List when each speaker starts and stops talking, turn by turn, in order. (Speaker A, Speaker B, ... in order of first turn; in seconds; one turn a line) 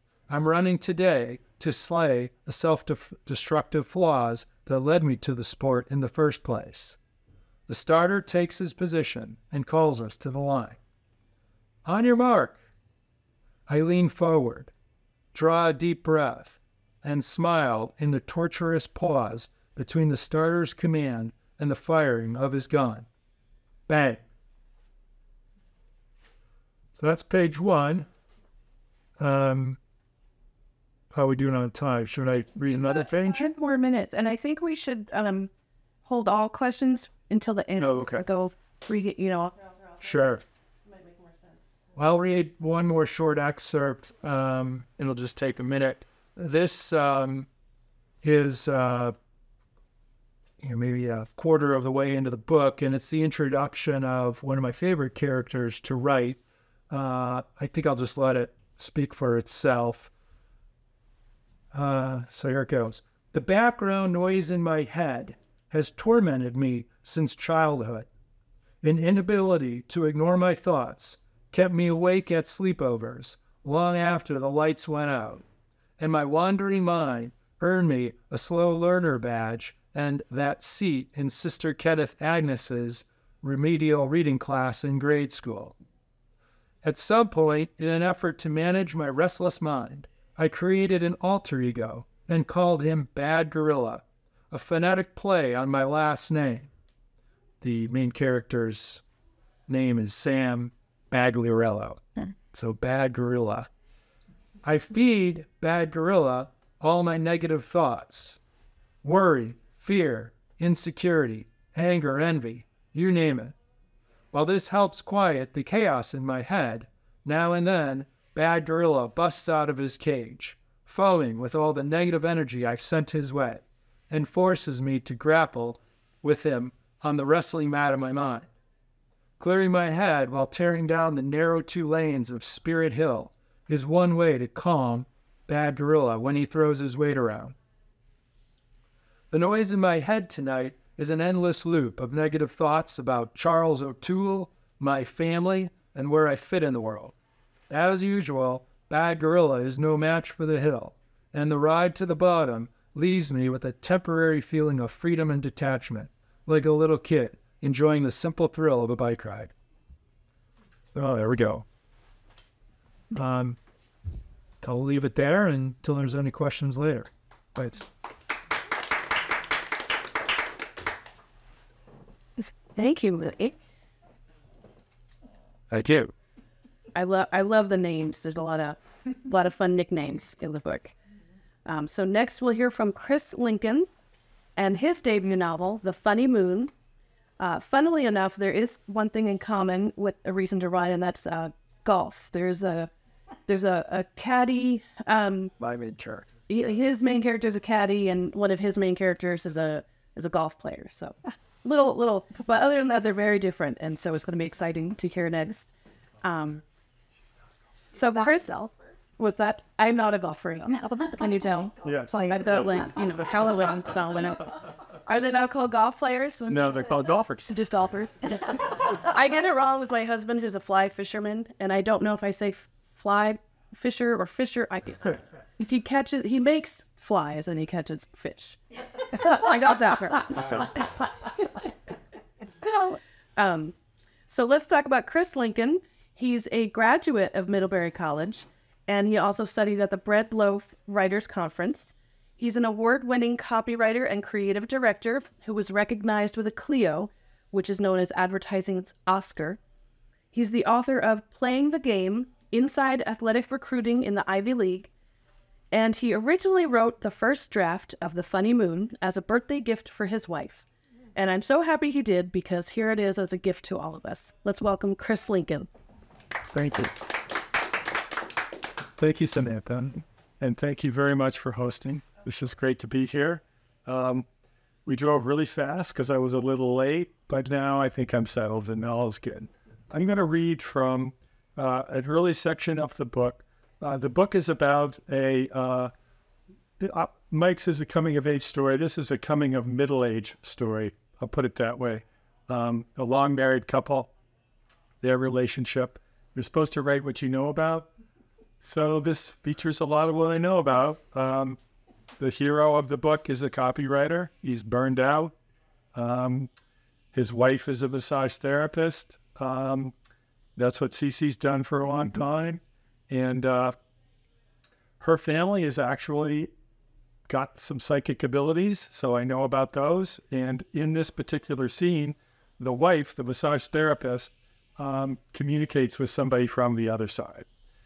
Speaker A: 0.3-7.0
Speaker A: 7.7-10.8
Speaker A: 11.8-12.6
Speaker A: 13.7-14.7
Speaker A: 15.3-23.1
Speaker A: 23.9-24.2
Speaker A: 26.9-28.1
Speaker A: 29.2-29.8
Speaker A: 31.1-33.5
Speaker B: 33.3-35.5
Speaker B: 36.0-40.3
Speaker A: 37.8-38.2
Speaker A: 40.0-40.4
Speaker B: 40.8-41.8
Speaker A: 41.9-47.5
Speaker A: 48.2-49.1
Speaker A: 50.6-56.4
Speaker A: 56.9-60.1
Speaker A: 61.7-68.1
Speaker A: 68.8-75.4
Speaker A: 76.0-85.7
Speaker A: 86.8-96.7
Speaker A: 97.6-99.0
Speaker A: 99.7-103.7
Speaker A: 104.6-108.4
Speaker A: 109.0-113.5
Speaker A: 114.3-128.5
Speaker A: 129.4-137.6
Speaker A: 139.3-147.1
Speaker A: 147.7-159.5
Speaker A: 160.9-161.6
Speaker A: 163.1-163.6
Speaker A: 164.6-167.9
Speaker B: 172.7-173.5
Speaker A: 175.7-176.1
Speaker B: 176.9-180.9
Speaker B: 181.6-183.9
Speaker B: 184.6-186.7
Speaker B: 187.4-192.9
Speaker B: 193.5-195.5
Speaker A: 195.6-196.2
Speaker B: 196.5-205.7
Speaker B: 206.2-206.6
Speaker B: 207.9-216.8
Speaker C: 211.8-212.1
Speaker C: 216.5-217.6
Speaker B: 217.5-228.6
Speaker B: 229.1-230.8
Speaker B: 232.6-233.7
Speaker B: 234.3-249.6
Speaker B: 250.3-254.9
Speaker B: 255.7-265.7
Speaker C: 266.6-266.9
Speaker A: 269.0-270.0
Speaker C: 270.4-274.2
Speaker C: 274.9-285.9
Speaker C: 286.8-294.1
Speaker C: 295.0-297.9
Speaker C: 298.6-301.6
Speaker C: 302.2-305.3
Speaker C: 305.9-306.5
Speaker C: 307.1-309.9
Speaker C: 310.6-313.7
Speaker C: 315.0-316.5
Speaker C: 317.3-327.4